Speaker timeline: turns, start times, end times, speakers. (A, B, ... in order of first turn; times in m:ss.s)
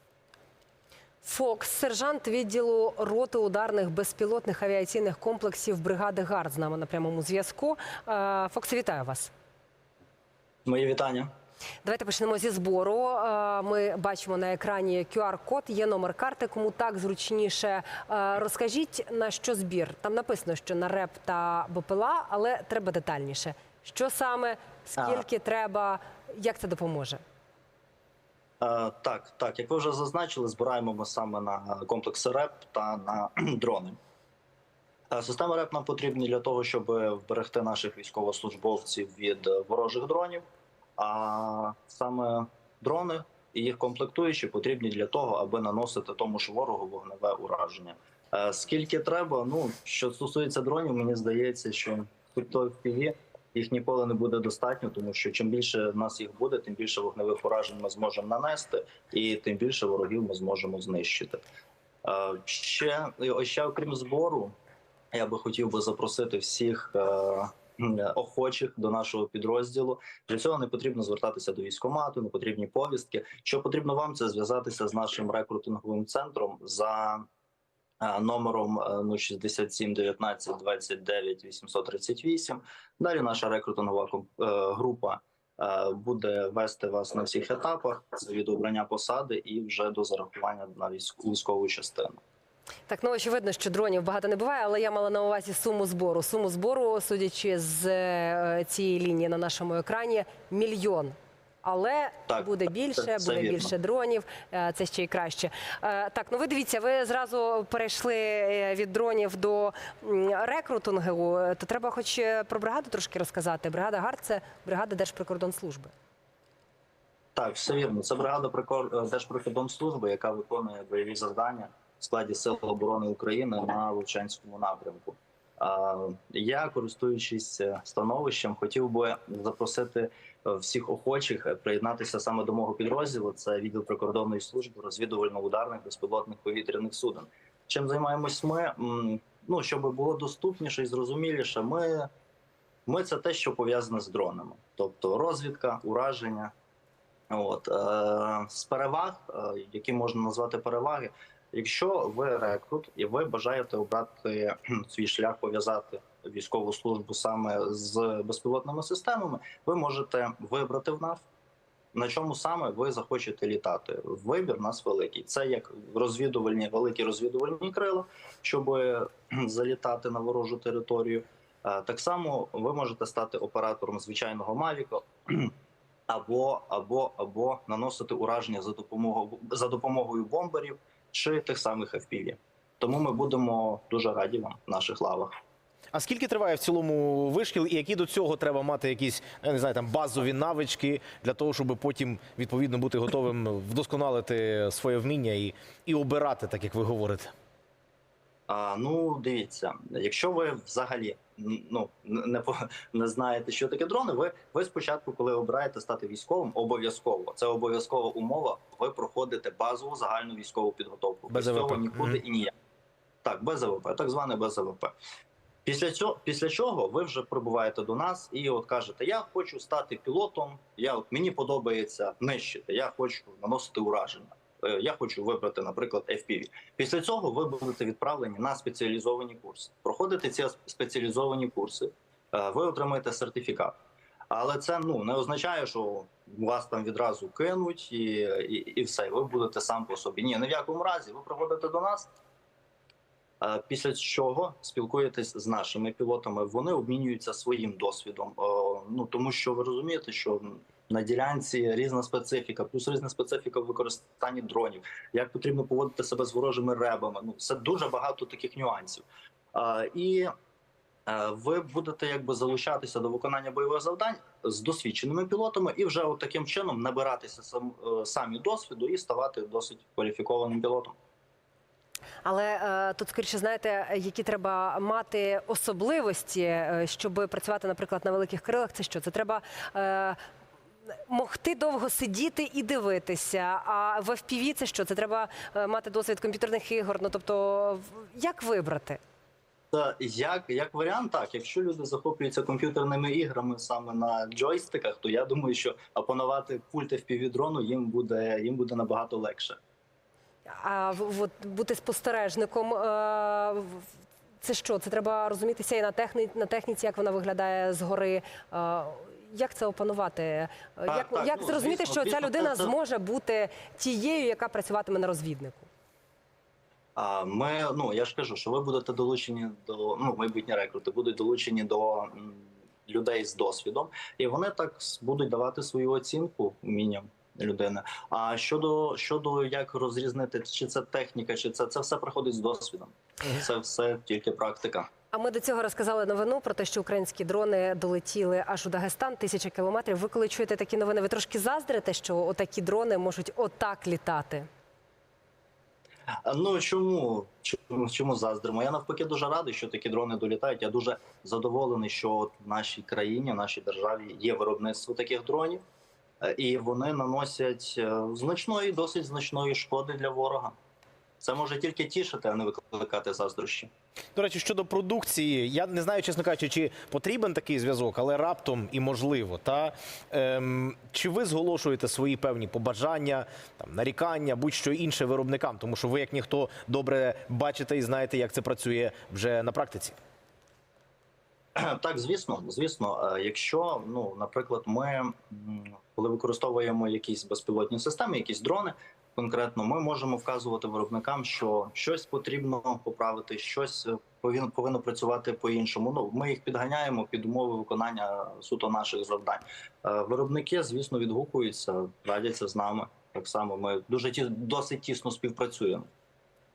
0:01.2-0:09.3 A
0:10.6-0:11.3 B
0:11.8-0:27.2 A
0:25.0-0:25.2 B
0:28.6-0:34.0 B
0:35.1-0:40.4 B
0:41.0-1:01.4 B
1:02.0-1:04.5 B
1:05.1-1:17.2 B
1:18.0-1:32.2 B
1:32.9-1:55.9 A
1:42.3-1:43.7 B
1:57.3-2:22.1 B
2:22.8-2:26.5 B
2:27.3-2:41.2 B
2:41.9-2:55.5 B
2:56.1-3:05.3 B
3:05.9-3:17.3 C
3:18.5-3:32.5 B
3:31.3-3:32.2 C
3:33.2-3:34.9 B
3:35.6-3:53.8 B
3:54.3-4:02.1 B
4:03.4-4:20.3 B
4:21.1-4:31.0 B
4:32.2-4:40.2 A
4:41.1-4:49.0 A
4:49.7-4:59.6 B
5:00.5-5:03.8 A
5:04.4-5:15.7 A
5:10.9-5:12.7 B
5:17.0-5:34.9 B
5:35.1-5:44.5 A
5:46.2-5:55.6 B
5:56.2-6:00.6 B
6:01.2-6:03.7 B
6:04.2-6:20.0 C
6:21.6-6:45.9 B